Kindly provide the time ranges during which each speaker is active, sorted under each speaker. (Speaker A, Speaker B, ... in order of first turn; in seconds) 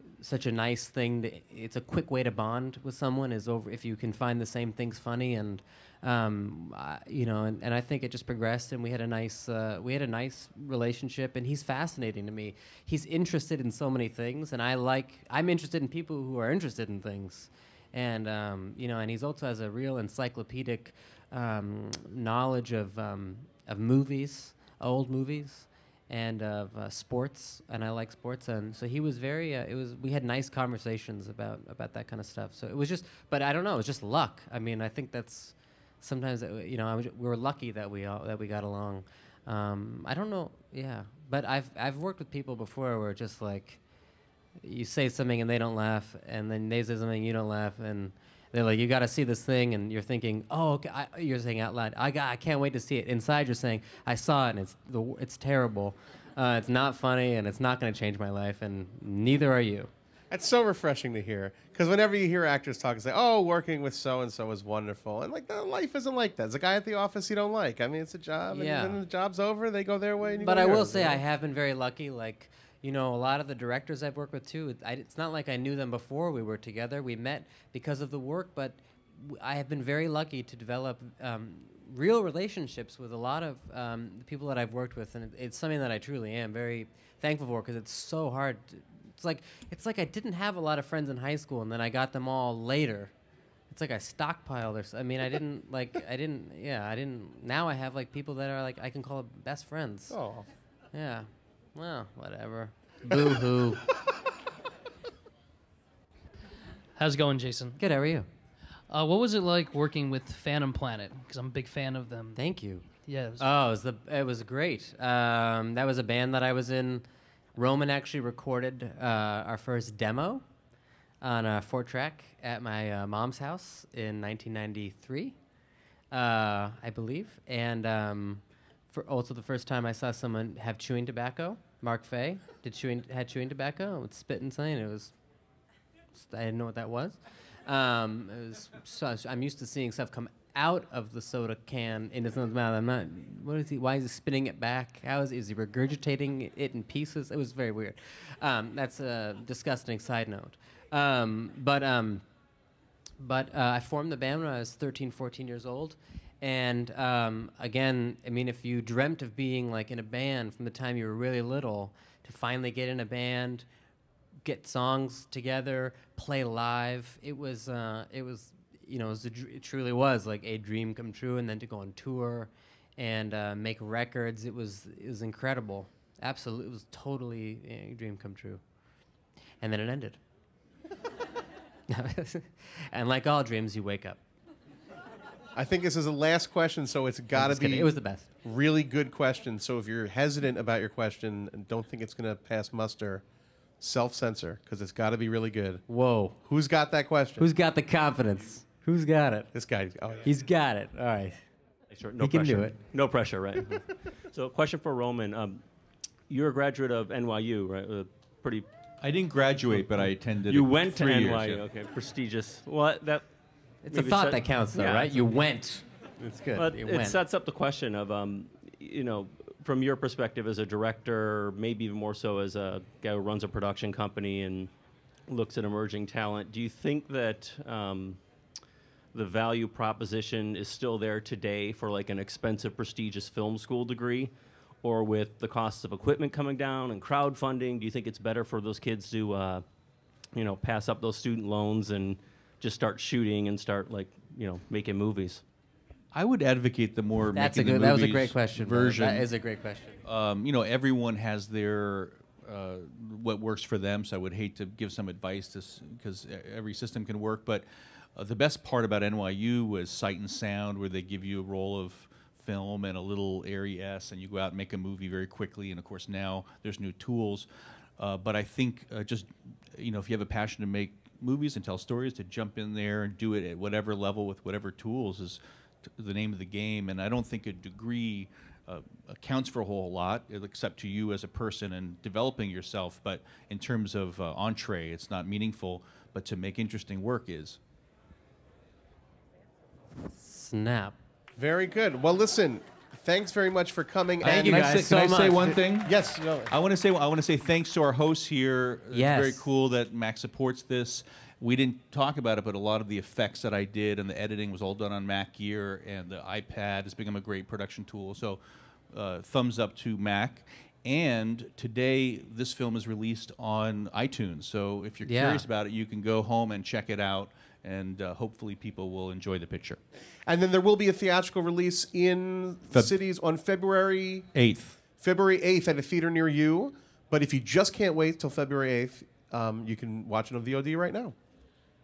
Speaker A: 0.2-43.8, 44.6-59.9, 68.5-69.0, 70.4-93.1, 93.7-100.2, 100.9-103.8, 107.8-108.3, 112.4-112.9, 113.4-117.0, 117.6-120.4, 121.2-125.4, 126.1-135.1, 136.2-152.2, 153.2-163.7, 164.4-178.6, 179.6-180.2, 181.9-184.2, 187.3-188.3, 195.9-196.4, 197.4-199.5, 200.2-201.4, 202.2-202.8, 213.9-217.2, 247.3-250.0, 290.1-290.9, 294.2-295.6, 298.9-299.4, 315.1-315.4
Speaker B: 60.3-71.2, 100.1-100.5, 185.6-187.9, 188.4-193.2, 193.8-195.8, 196.4-197.5, 199.5-200.3, 291.4-294.7, 295.4-296.5, 320.3-324.3, 325.0-331.1
Speaker C: 107.0-107.8, 108.9-112.4, 113.0-113.5
Speaker D: 201.9-205.6, 206.3-208.7, 210.5-213.3, 213.9-215.2, 216.6-224.7, 225.3-228.2, 229.1-239.7, 240.3-245.4
Speaker E: 209.0-211.7, 246.1-249.3, 250.0-257.6, 258.2-267.5, 268.0-287.6, 294.2-308.4, 308.9-319.8, 324.4-324.8